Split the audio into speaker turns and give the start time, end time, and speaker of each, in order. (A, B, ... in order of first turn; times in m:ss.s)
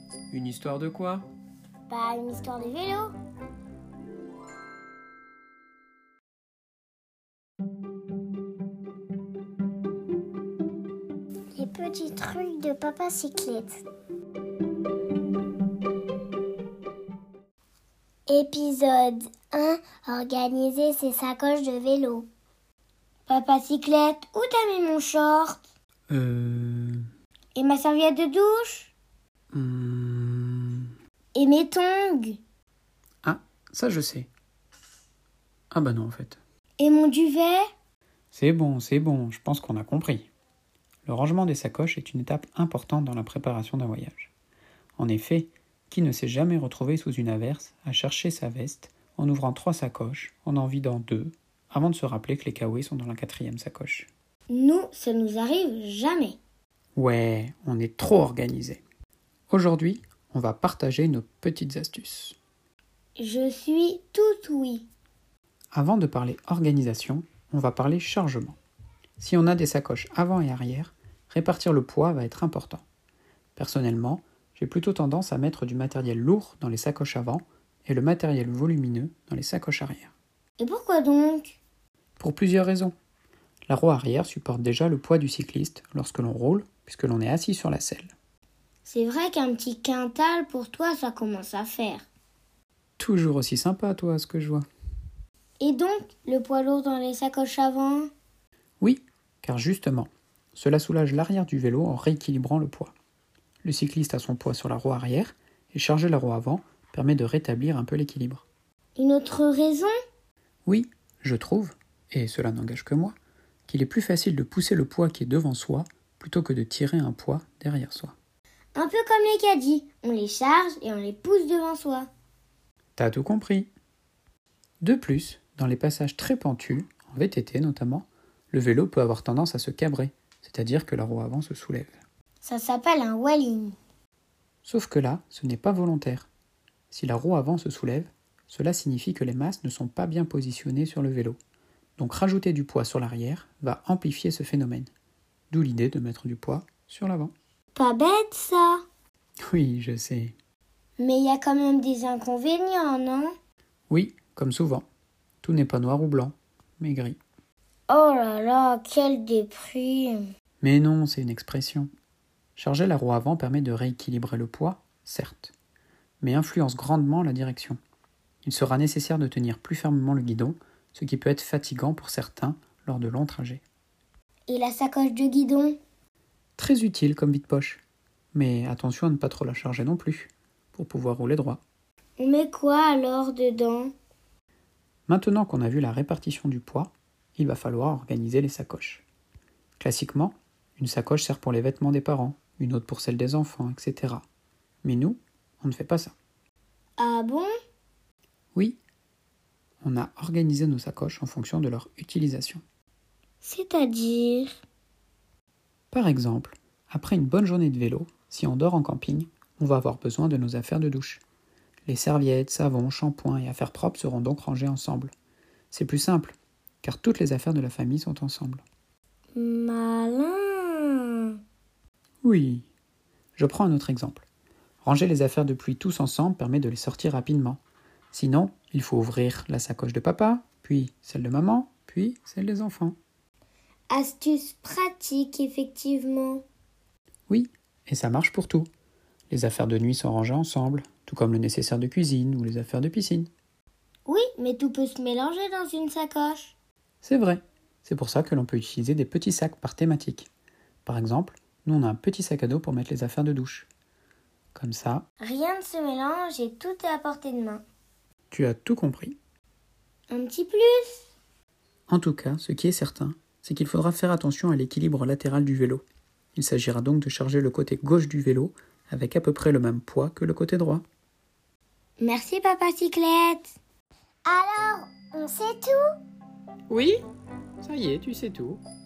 0:00.3-0:01.2 A
0:01.9-0:03.1 B
0:11.5-0:13.8 B
0:18.3-0:22.3 B
0:23.3-0:25.6 B
0:26.1-0:27.0 A
0:27.5-0:28.9 B
0:29.5-0:30.9 A
0:31.3-0:32.4 B
0:33.2-0:34.3 A
0:35.7-0:36.4 A
0:36.8-0:37.6 B
0:38.3-0:40.3 A
0:41.0-0:44.3 A
0:45.0-0:54.1 A
0:54.5-0:56.4 B
0:57.0-0:58.8 A
0:59.5-1:02.4 A
1:03.2-1:04.9 B
1:05.7-1:08.6 A
1:09.2-1:12.8 A
1:13.6-1:20.1 A
1:20.6-1:21.6 B
1:22.2-1:22.9 A
1:23.7-1:28.1 A
1:28.8-1:32.0 B
1:33.0-1:34.6 A
1:35.6-1:38.1 B
1:38.8-1:42.9 A
1:43.6-1:48.4 A
1:49.0-1:49.9 B
1:50.6-1:53.1 A
1:53.7-1:58.1 A
1:58.7-2:02.1 B
2:03.0-2:03.7 A
2:04.8-2:12.0 A
2:12.4-2:13.7 B
2:14.6-2:16.3 A
2:16.9-2:21.4 A
2:22.0-2:24.9 A
2:25.5-2:27.3 A
2:27.8-2:28.8 B
2:29.5-2:30.3 A
2:31.0-2:33.3 B
2:33.9-2:34.8 A
2:35.4-2:37.2 A
2:37.9-2:40.2 B
2:40.6-2:41.9 A
2:42.6-2:45.5 A
2:46.2-2:47.8 A
2:48.4-2:53.6 A
2:54.5-2:55.8 B
2:56.6-2:57.8 A
2:58.3-3:01.6 A
3:02.2-3:03.9 B
3:05.1-3:09.0 A
3:09.8-3:14.2 A
3:14.8-3:16.1 A
3:17.0-3:17.5 B
3:19.8-3:22.6 A
3:23.4-3:24.5 B
3:25.9-3:31.2 A
3:31.9-3:35.1 A
3:35.7-3:38.6 A
3:39.4-3:41.3 B
3:42.2-3:42.7 A
3:43.4-3:44.2 A
3:44.8-3:47.6 A
3:48.1-3:53.0 A
3:53.9-3:56.4 B
3:57.3-3:58.7 A
3:59.3-4:03.3 A
4:04.0-4:06.5 B
4:07.0-4:10.3 A
4:10.8-4:13.7 A
4:14.5-4:15.0 A
4:15.2-4:17.6 B
4:18.3-4:19.2 A
4:20.1-4:21.0 B
4:21.9-4:25.8 A
4:26.3-4:30.8 A
4:32.0-4:33.5 B
4:34.3-4:35.8 B
4:36.7-4:37.0 A
4:37.6-4:38.6 A